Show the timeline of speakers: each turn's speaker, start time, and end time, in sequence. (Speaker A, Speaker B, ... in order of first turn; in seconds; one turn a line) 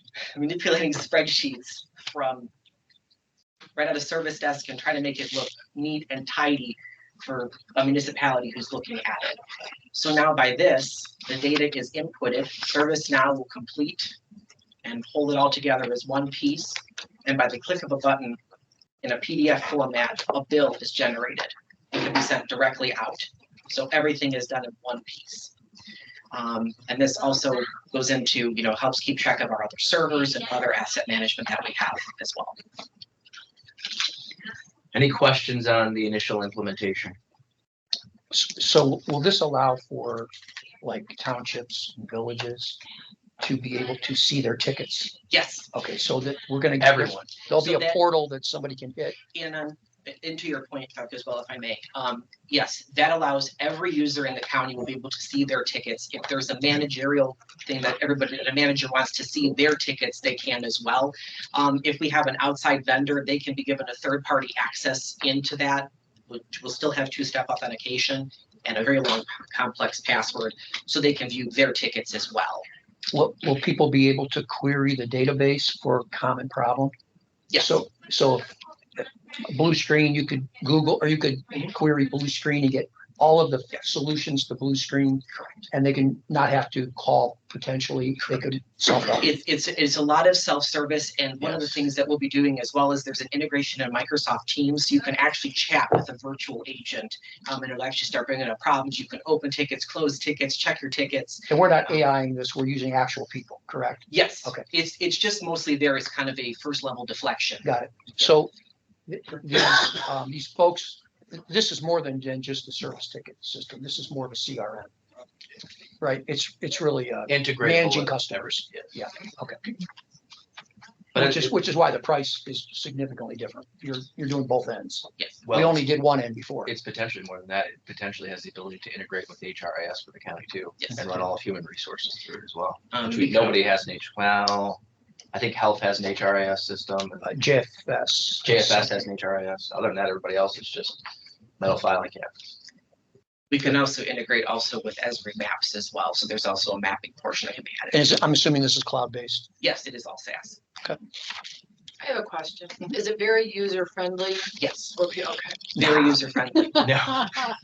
Speaker A: 0.3-2.5
Speaker A: 3.8-9.4
Speaker A: 9.9-14.1
Speaker A: 14.8-18.4
Speaker A: 19.0-25.5
Speaker A: 26.3-32.6
Speaker B: 34.9-37.2
Speaker C: 38.3-40.3
Speaker C: 40.8-42.8
Speaker C: 43.4-45.1
Speaker A: 45.3-45.7
Speaker C: 45.7-49.2
Speaker B: 46.8-47.3
Speaker A: 47.5-48.0
Speaker A: 49.3-72.7
Speaker C: 73.1-76.9
Speaker A: 77.5-77.8
Speaker C: 77.6-89.3
Speaker A: 85.3-85.7
Speaker A: 89.2-102.0
Speaker B: 91.4-91.8
Speaker C: 101.5-104.6
Speaker A: 104.1-108.3
Speaker C: 107.6-108.5
Speaker C: 109.1-114.9
Speaker C: 116.0-119.6
Speaker B: 117.3-118.9
Speaker B: 121.1-121.6
Speaker C: 121.1-126.7
Speaker B: 125.4-125.9
Speaker B: 126.6-134.8
Speaker A: 132.9-133.6
Speaker B: 135.3-137.2
Speaker C: 137.2-138.9
Speaker B: 138.4-141.0
Speaker B: 141.6-142.3
Speaker A: 143.5-148.2
Speaker C: 147.9-149.5
Speaker A: 149.6-150.6
Speaker D: 152.0-155.7
Speaker A: 154.6-155.0
Speaker A: 155.7-156.9
Speaker C: 155.8-156.2
Speaker B: 156.8-157.6